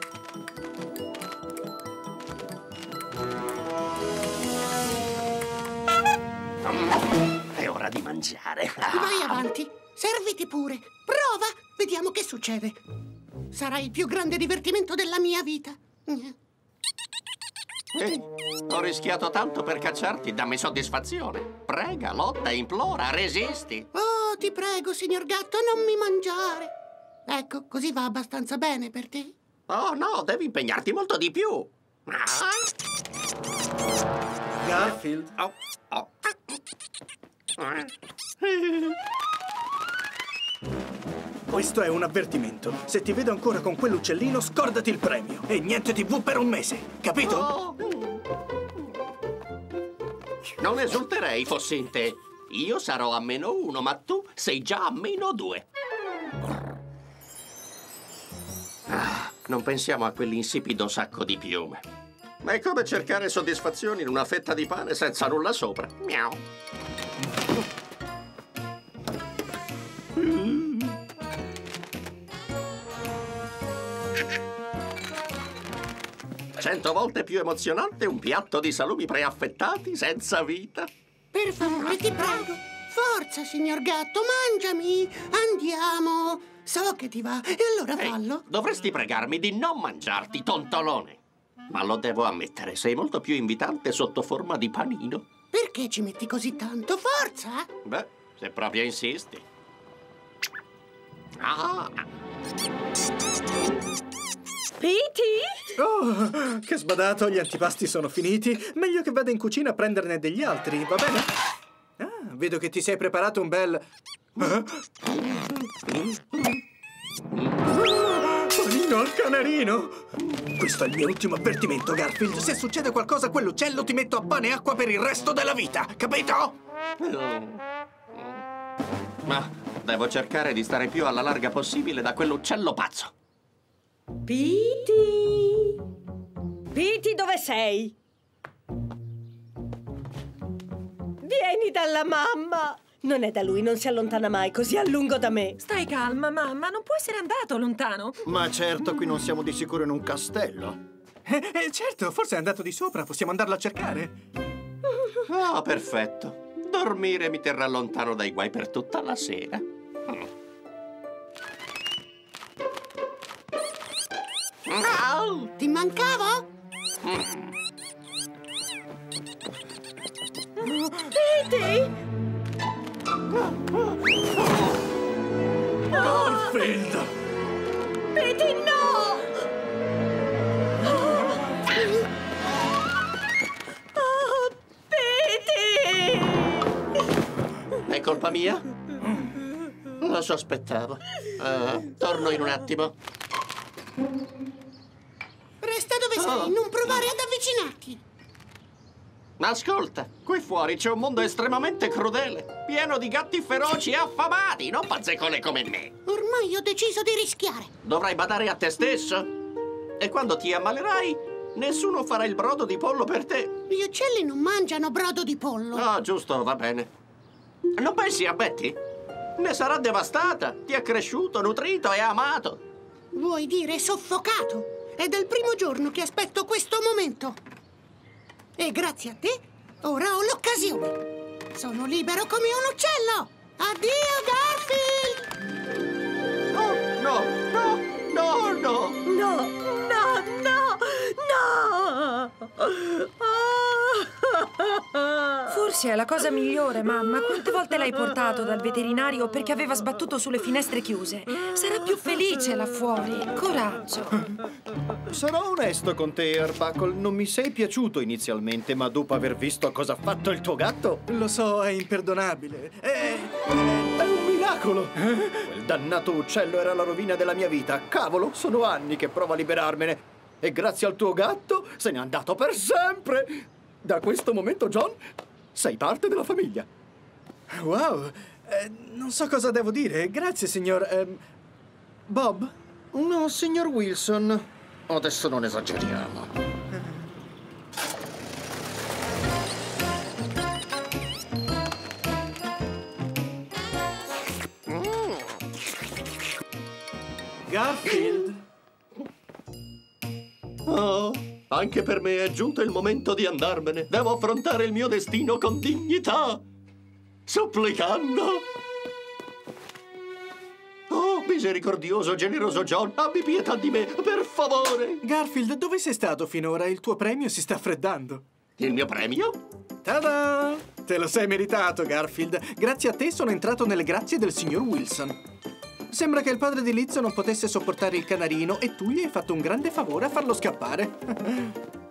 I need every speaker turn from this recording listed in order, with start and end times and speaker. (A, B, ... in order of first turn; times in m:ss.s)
0:06.7-0:07.0 A
0:07.5-0:09.4 A
0:08.9-0:12.8 B
0:13.5-0:16.4 B
0:17.9-0:23.9 A
0:23.9-0:26.7 B
0:27.3-0:29.3 B
0:29.7-0:32.7 A
0:34.6-0:35.4 C
0:35.4-0:36.3 A
0:37.6-0:37.9 A
0:38.4-0:39.0 A
0:41.5-0:47.5 C
0:47.2-0:48.2 A
0:50.6-0:55.6 A
0:58.9-1:01.8 A
1:02.4-1:06.4 A
1:10.2-1:10.9 A
1:16.6-1:20.9 A
1:21.3-1:28.4 B
1:28.0-1:35.2 A
1:35.5-1:37.7 B
1:37.8-1:39.4 A
1:41.4-1:42.0 A
1:44.8-1:45.6 D
1:45.8-1:51.3 C
1:52.0-1:53.8 C
1:54.4-1:54.8 C
1:57.3-1:57.6 A
1:57.8-2:06.6 C
2:07.0-2:07.6 A
2:08.1-2:08.4 A
2:09.2-2:13.1 A
2:14.3-2:15.8 D
2:16.7-2:18.0 D
2:21.2-2:25.6 D
2:25.6-2:28.2 E
2:28.2-2:30.8 F
2:31.3-2:34.1 C
2:35.3-2:40.3 A
2:44.7-2:45.5 A
2:45.6-2:46.5 B
2:47.0-2:47.5 A
2:50.6-2:52.0 D
2:56.0-2:56.6 D
2:56.0-2:57.1 C
2:58.1-2:59.3 D
3:00.9-3:01.8 D
3:04.0-3:06.7 D
3:07.8-3:08.6 A
3:10.0-3:13.0 A
3:15.6-3:18.0 B
3:16.2-3:17.1 A
3:19.4-3:25.9 A
3:26.1-3:27.7 B
3:27.8-3:29.3 A
3:30.0-3:33.6 A
3:33.7-3:35.9 B
3:35.7-3:36.9 A
3:37.8-3:38.8 A
3:39.4-3:42.6 A
3:43.1-3:47.4 B
3:48.6-3:51.0 B
3:51.6-3:55.3 B
3:56.5-3:59.0 A
3:59.1-4:05.6 D
4:05.5-4:14.2 E
4:15.1-4:21.0 F
4:21.1-4:23.9 C
4:24.0-4:35.0 F
4:25.1-4:25.4 C
4:35.5-4:36.7 F
4:37.5-4:41.2 C
4:42.1-4:42.5 C
4:42.9-4:46.3 F
4:57.5-4:58.4 C
5:00.7-5:06.4 A
5:07.3-5:08.4 A
5:10.9-5:15.0 A
5:15.0-5:18.2 C
5:18.6-5:19.4 A
5:19.8-5:25.2 C
5:25.9-5:31.6 C